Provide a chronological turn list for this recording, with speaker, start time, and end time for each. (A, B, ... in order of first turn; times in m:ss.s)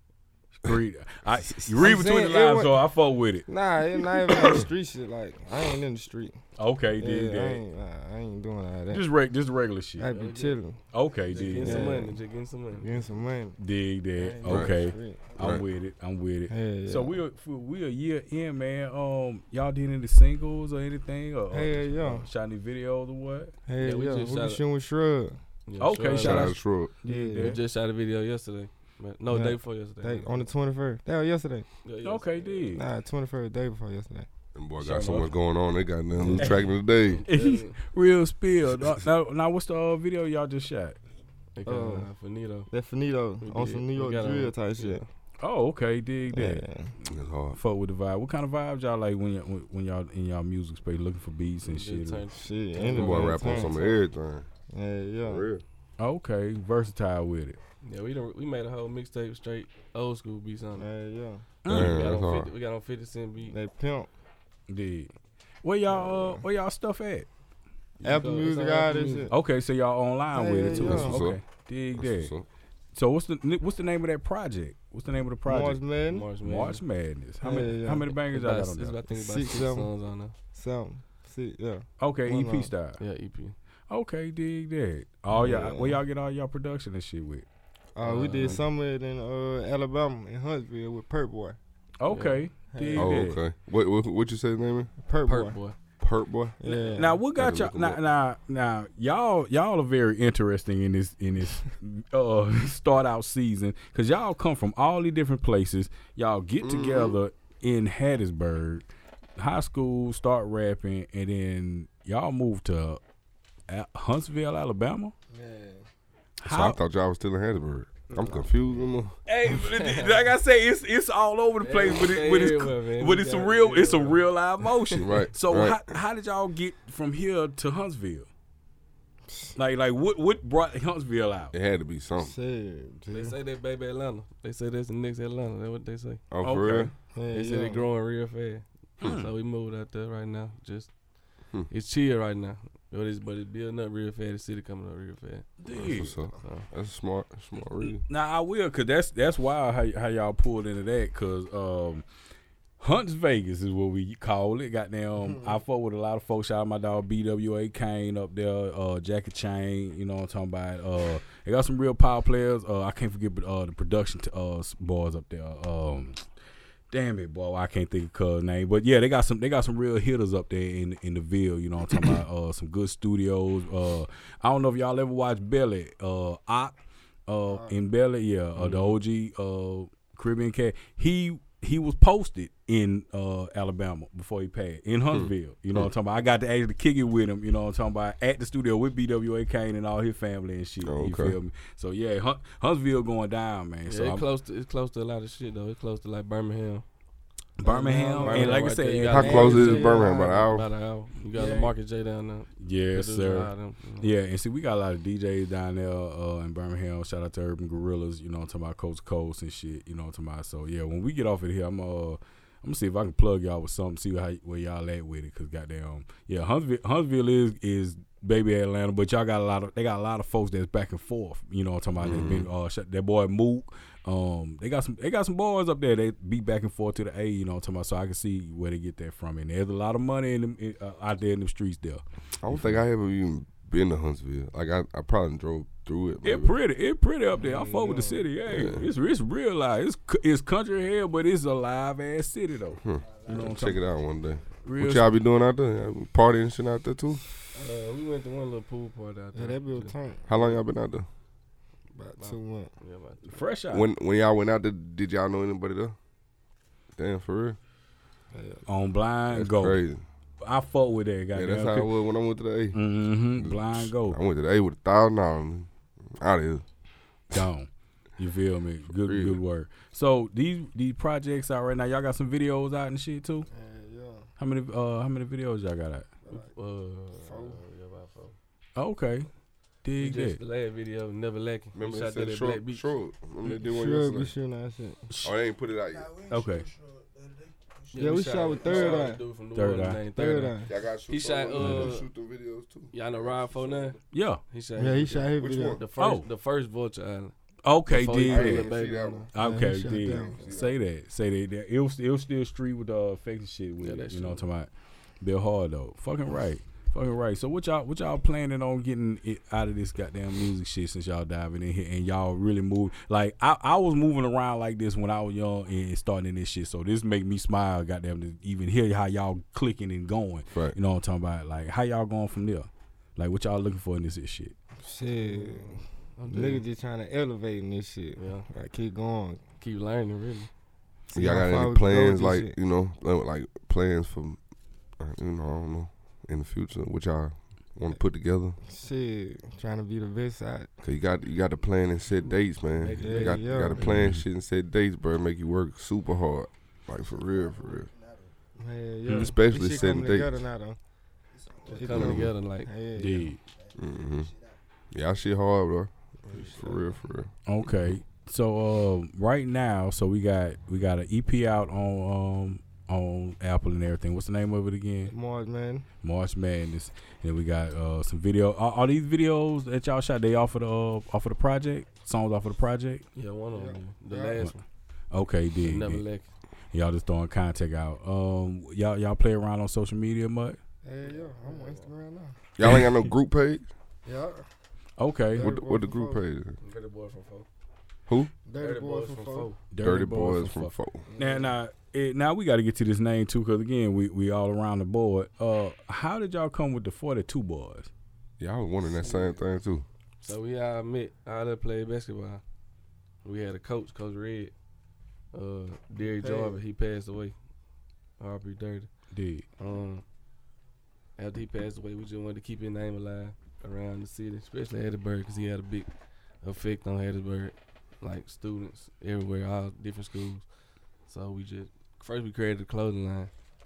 0:00.6-0:03.5 A
0:01.8-0:02.8 B
0:03.5-0:06.4 B
0:04.3-0:04.6 C
0:06.6-0:07.6 A
0:07.0-0:09.0 B
0:08.9-0:10.1 A
0:10.0-0:12.2 B
0:10.1-0:10.6 D
0:10.9-0:12.0 A
0:11.3-0:13.1 D
0:12.7-0:13.6 B
0:13.6-0:23.5 A
0:14.2-0:15.4 B
0:14.5-0:14.8 C
0:15.4-0:15.6 C
0:16.5-0:17.2 B
0:21.5-0:22.3 B
0:23.7-0:25.4 B
0:23.8-0:24.6 D
0:25.7-0:26.5 D
0:25.8-0:27.6 A
0:26.2-0:27.0 C
0:27.0-0:27.6 B
0:27.4-0:30.4 D
0:29.3-0:31.7 B
0:31.8-0:32.7 D
0:32.0-0:32.9 A
0:32.7-0:34.3 B
0:34.6-0:37.2 C
0:34.8-0:35.3 A
0:36.2-0:36.6 B
0:36.4-0:36.6 A
0:37.1-0:37.8 D
0:37.3-0:41.0 A
0:41.6-0:42.7 D
0:41.6-0:42.1 B
0:42.7-0:45.0 B
0:43.4-0:45.1 D
0:45.4-0:52.2 A
0:46.3-0:46.9 B
0:47.1-0:47.6 C
0:51.6-0:54.1 D
0:52.3-0:53.8 B
0:52.9-0:54.5 C
0:54.7-0:55.5 B
0:55.2-0:55.6 C
0:56.0-0:57.6 A
0:57.8-1:00.9 D
1:00.8-1:01.5 B
1:01.6-1:02.0 A
1:01.7-1:02.5 C
1:01.7-1:03.6 D
1:03.4-1:04.1 B
1:04.7-1:05.1 A
1:05.6-1:07.3 A
1:05.9-1:06.4 B
1:08.0-1:09.3 D
1:08.0-1:09.3 B
1:09.3-1:12.3 A
1:10.3-1:11.3 B
1:10.7-1:11.4 C
1:12.0-1:12.5 C
1:12.9-1:15.8 A
1:15.5-1:16.3 B
1:16.1-1:16.8 D
1:16.4-1:19.0 A
1:17.4-1:18.1 B
1:18.1-1:20.3 D
1:19.1-1:19.9 B
1:20.5-1:22.7 B
1:22.0-1:23.0 A
1:23.0-1:23.6 D
1:23.9-1:27.5 A
1:25.3-1:26.0 B
1:28.0-1:31.6 B
1:28.0-1:28.6 D
1:32.0-1:33.4 A
1:32.1-1:32.4 D
1:32.7-1:33.2 B
1:33.0-1:34.9 C
1:35.0-1:35.6 B
1:35.2-1:35.8 D
1:36.0-1:36.7 C
1:36.6-1:37.2 B
1:36.7-1:48.8 A
1:37.3-1:38.0 C
1:46.6-1:47.2 C
1:49.4-1:53.0 A
1:53.7-1:55.1 A
1:55.3-1:55.9 B
1:56.4-1:56.8 A
1:56.4-1:59.2 C
1:59.3-2:08.3 A
1:59.5-2:00.3 D
2:01.6-2:05.1 D
2:05.0-2:05.9 C
2:09.6-2:11.5 A
2:11.5-2:12.4 C
2:12.2-2:13.4 B
2:13.1-2:16.2 D
2:16.3-2:16.9 C
2:16.4-2:16.9 A
2:17.1-2:17.9 B
2:17.3-2:20.9 D
2:19.0-2:19.3 A
2:21.7-2:25.6 D
2:25.6-2:26.2 A
2:25.7-2:28.0 C
2:26.4-2:26.7 D
2:27.8-2:32.0 A
2:32.8-2:46.2 A
2:35.2-2:35.6 B
2:46.9-2:56.8 A
2:57.3-3:14.3 A
2:57.5-2:57.8 B
2:58.6-2:58.9 C
3:05.1-3:05.9 C
3:10.8-3:11.4 C
3:13.9-3:16.8 D
3:17.6-3:19.8 A
3:17.6-3:20.5 B
3:18.2-3:24.1 D
3:19.0-3:20.6 C
3:21.3-3:21.7 A
3:22.6-3:52.8 A
3:42.0-3:42.5 C
3:52.4-3:56.5 C
3:56.2-4:03.8 A
3:57.4-3:58.3 B
3:58.4-3:58.9 C
4:02.8-4:07.2 C
4:04.6-4:05.1 A
4:07.5-4:10.0 D
4:09.3-4:10.3 B
4:10.3-4:11.1 C
4:11.9-4:12.7 B
4:12.2-4:13.5 D
4:13.3-4:13.9 A
4:13.7-4:16.0 C
4:17.0-4:17.6 C
4:18.3-4:18.6 B
4:18.7-4:19.8 A
4:19.3-4:20.0 C
4:20.4-4:21.9 A
4:21.3-4:22.8 C
4:22.7-4:24.2 A
4:23.4-4:26.6 C
4:27.3-4:33.5 A
4:28.9-4:29.4 C
4:33.5-4:34.3 B
4:34.4-4:36.1 A
4:36.2-4:36.5 B
4:36.3-4:38.4 D
4:37.2-4:37.6 B
4:38.8-4:39.3 A
4:39.8-4:40.4 A
4:40.0-4:42.9 D
4:41.8-4:44.3 C
4:43.6-4:45.1 B
4:45.2-4:46.2 C
4:46.3-4:46.7 A
4:47.9-4:52.1 D
4:47.9-4:49.2 B
4:49.5-4:50.0 A
4:50.1-4:50.7 B
4:50.6-4:54.0 C
4:51.6-4:51.9 B
4:52.9-4:54.0 D
4:54.1-4:54.4 A
4:54.5-4:57.3 D
4:54.8-4:55.8 B
4:55.4-4:55.8 C
4:56.0-4:56.3 A
4:57.6-4:58.7 A
4:57.9-4:59.3 D
4:58.3-4:59.3 C
4:59.0-5:00.4 B
4:59.4-5:04.7 A
5:00.1-5:00.8 C
5:03.8-5:04.4 D
5:05.2-5:24.6 A
5:24.8-5:29.4 B
5:26.2-5:26.6 D
5:28.2-5:28.5 D
5:29.6-5:30.5 D
5:31.1-5:32.6 B
5:31.2-5:34.4 C
5:35.0-5:38.6 C
5:38.6-5:40.7 B
5:40.8-5:47.9 C
5:42.8-5:44.0 D
5:43.0-5:43.9 B
5:43.8-5:44.2 A
5:48.6-5:50.8 B
5:49.1-5:49.4 A
5:49.2-5:50.4 C
5:51.6-5:53.3 B
5:51.6-5:52.7 D
5:51.9-5:52.3 C
5:53.0-5:53.4 A
5:53.8-5:54.3 C
5:54.9-5:57.9 C
5:56.3-5:57.0 B
5:57.5-6:05.1 A
6:05.1-6:05.9 B
6:06.0-6:13.1 A
6:13.2-6:14.6 D
6:13.5-6:14.5 B
6:15.1-6:16.0 A
6:15.6-6:16.3 D
6:16.7-6:20.6 A
6:20.8-6:22.4 B
6:21.0-6:21.9 D
6:22.6-6:23.7 C
6:24.0-6:24.4 B
6:25.0-6:25.6 A
6:25.4-6:26.2 B
6:25.4-6:26.6 C
6:26.6-6:27.5 D
6:28.1-6:28.4 C
6:28.4-6:29.5 B
6:28.6-6:29.6 D
6:29.7-6:31.1 C
6:29.7-6:37.9 A
6:31.1-6:31.5 B
6:38.4-6:39.9 C
6:39.0-6:39.4 B
6:40.2-6:42.4 D
6:43.2-6:44.5 D
6:45.3-6:47.4 D
6:46.0-6:46.6 B
6:48.2-6:48.9 D
6:49.1-6:49.5 A
6:49.6-6:50.0 D
6:51.2-6:55.9 D
6:56.4-7:00.5 D
7:01.1-7:03.3 D